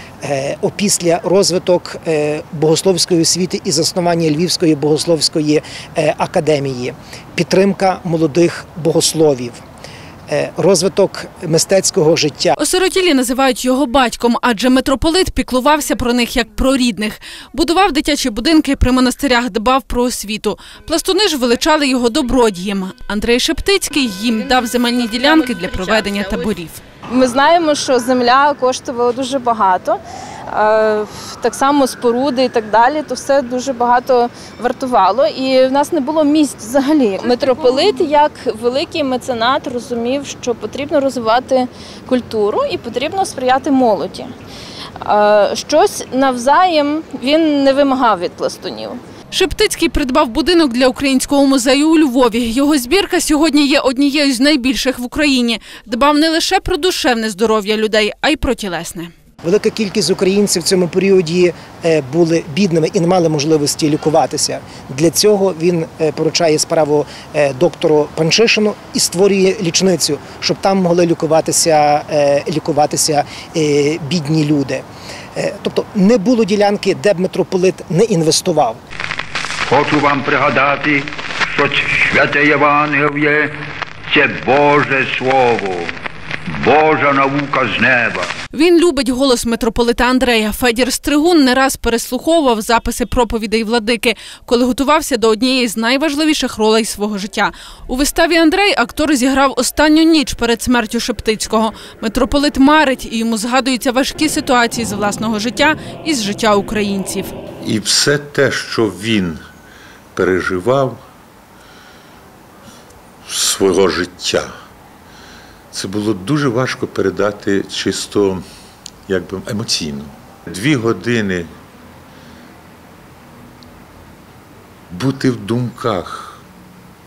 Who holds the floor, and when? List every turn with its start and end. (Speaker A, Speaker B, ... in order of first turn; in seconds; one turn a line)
Speaker A: 0.2-9.6
Speaker A: 10.3-12.6
Speaker B: 12.6-26.8
Speaker C: 27.1-30.0
Speaker C: 30.5-44.3
Speaker C: 45.0-49.0
Speaker B: 49.3-59.1
Speaker A: 59.4-78.8
Speaker D: 79.7-83.6
Speaker D: 84.1-88.3
Speaker B: 88.5-107.3
Speaker E: 107.6-109.4
Speaker E: 110.1-111.0
Speaker E: 113.2-114.5
Speaker E: 115.7-118.4
Speaker E: 119.1-121.5
Speaker E: 124.9-126.4